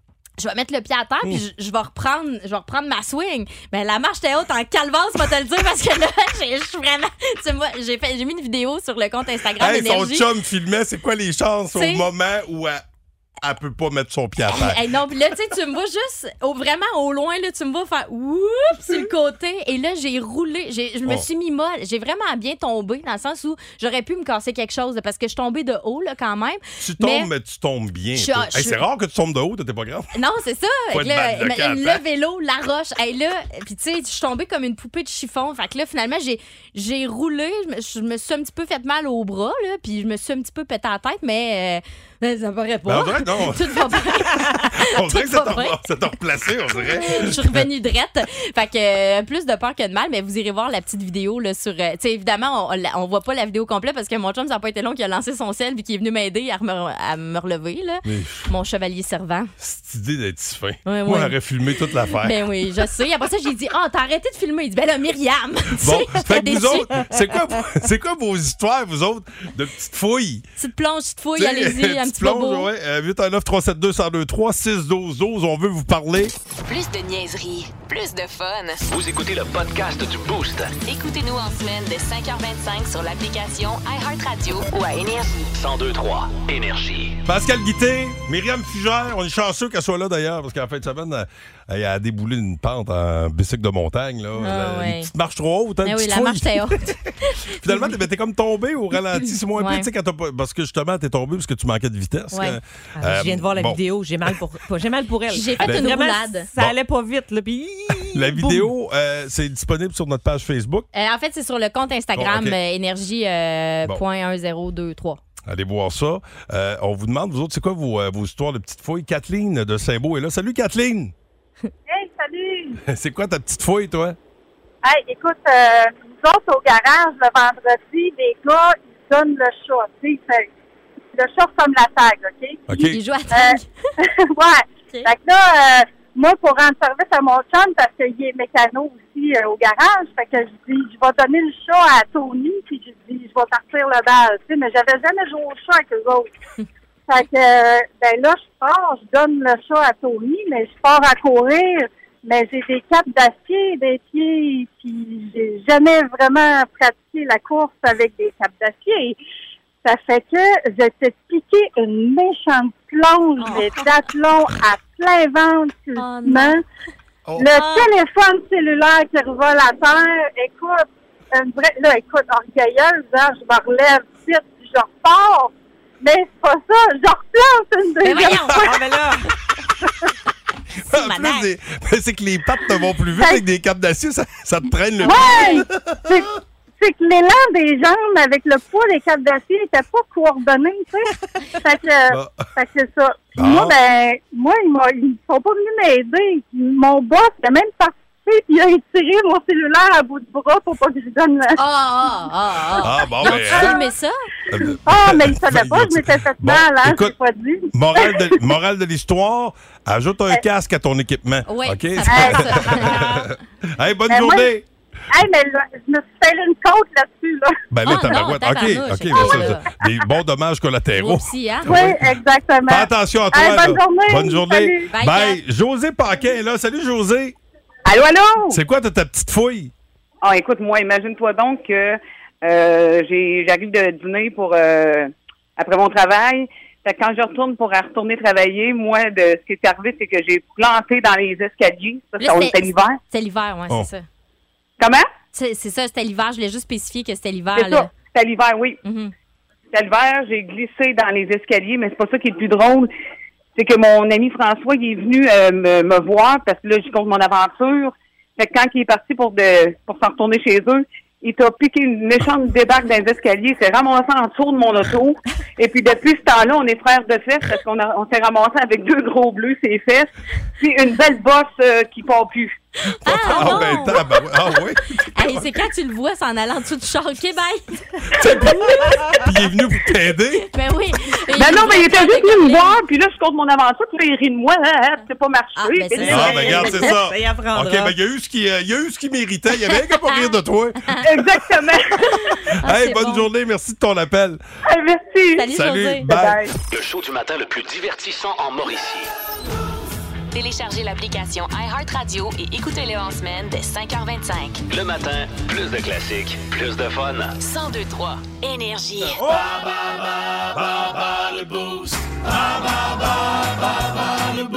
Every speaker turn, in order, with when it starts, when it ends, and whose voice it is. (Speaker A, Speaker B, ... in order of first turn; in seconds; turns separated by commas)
Speaker A: 0.4-10.3, Speaker B: 9.6-12.8, Speaker A: 11.7-12.1, Speaker B: 13.4-14.8, Speaker A: 14.5-27.3, Speaker B: 26.8-30.1, Speaker A: 28.1-28.8, Speaker A: 30.1-45.8, Speaker B: 30.9-32.0, Speaker B: 42.9-47.6, Speaker A: 46.9-59.5, Speaker B: 58.0-58.5, Speaker B: 59.6-62.4, Speaker A: 60.8-67.1, Speaker B: 65.8-70.4, Speaker A: 70.6-72.7, Speaker B: 71.4-76.3, Speaker C: 76.7-78.8, Speaker D: 78.9-80.8, Speaker C: 80.8-85.5, Speaker D: 85.5-87.2, Speaker B: 87.2-103.8, Speaker A: 94.4-95.1, Speaker A: 95.8-98.0, Speaker A: 99.5-99.9, Speaker A: 102.3-102.6, Speaker E: 103.0-108.7, Speaker A: 105.3-106.5, Speaker B: 105.6-105.9, Speaker B: 108.1-110.9, Speaker A: 110.9-115.2, Speaker B: 112.2-112.6, Speaker B: 115.5-121.1, Speaker F: 121.9-122.8, Speaker B: 122.8-124.2, Speaker F: 124.8-130.5, Speaker F: 131.1-132.6, Speaker B: 132.7-133.0, Speaker A: 132.7-133.7, Speaker F: 133.3-146.3, Speaker F: 147.1-159.2, Speaker F: 159.8-166.6, Speaker A: 163.4-163.9, Speaker A: 165.9-166.6, Speaker F: 167.3-178.7, Speaker A: 167.5-167.9, Speaker A: 178.0-178.7, Speaker E: 178.6-179.2, Speaker B: 180.8-186.2, Speaker A: 180.9-181.4, Speaker E: 180.9-181.4, Speaker F: 183.1-183.4, Speaker F: 185.0-201.6, Speaker A: 185.1-185.6, Speaker B: 192.1-192.5, Speaker B: 193.3-193.8, Speaker A: 201.6-204.2, Speaker B: 202.8-203.8, Speaker F: 203.3-203.8, Speaker B: 204.5-207.1, Speaker F: 204.8-208.5, Speaker B: 207.7-214.6, Speaker A: 211.4-213.3, Speaker F: 212.1-212.8, Speaker F: 214.1-214.5, Speaker F: 215.1-217.5, Speaker B: 217.7-227.3, Speaker A: 217.8-219.7, Speaker F: 219.1-219.5, Speaker A: 220.9-221.8, Speaker F: 221.7-224.9, Speaker A: 224.9-225.4, Speaker G: 227.8-228.6, Speaker B: 228.5-229.7, Speaker G: 230.2-243.0, Speaker A: 242.2-244.1, Speaker G: 244.8-245.1, Speaker A: 245.3-247.9, Speaker G: 247.5-248.8, Speaker A: 248.8-249.1, Speaker G: 249.7-252.9, Speaker G: 253.6-270.1, Speaker G: 270.6-272.6, Speaker A: 273.0-274.1, Speaker B: 273.0-275.5, Speaker A: 275.1-279.0, Speaker B: 278.1-280.4, Speaker A: 280.5-282.8, Speaker G: 281.3-286.8, Speaker A: 285.6-286.9, Speaker E: 286.0-287.9, Speaker B: 286.0-291.5, Speaker A: 289.6-291.0, Speaker G: 291.1-291.9, Speaker A: 292.0-293.3, Speaker B: 292.6-294.4, Speaker G: 294.7-295.5, Speaker A: 295.3-296.1, Speaker B: 295.5-296.4, Speaker G: 296.1-296.5, Speaker D: 296.7-299.1, Speaker C: 300.3-304.6, Speaker D: 304.7-307.4, Speaker C: 307.4-309.2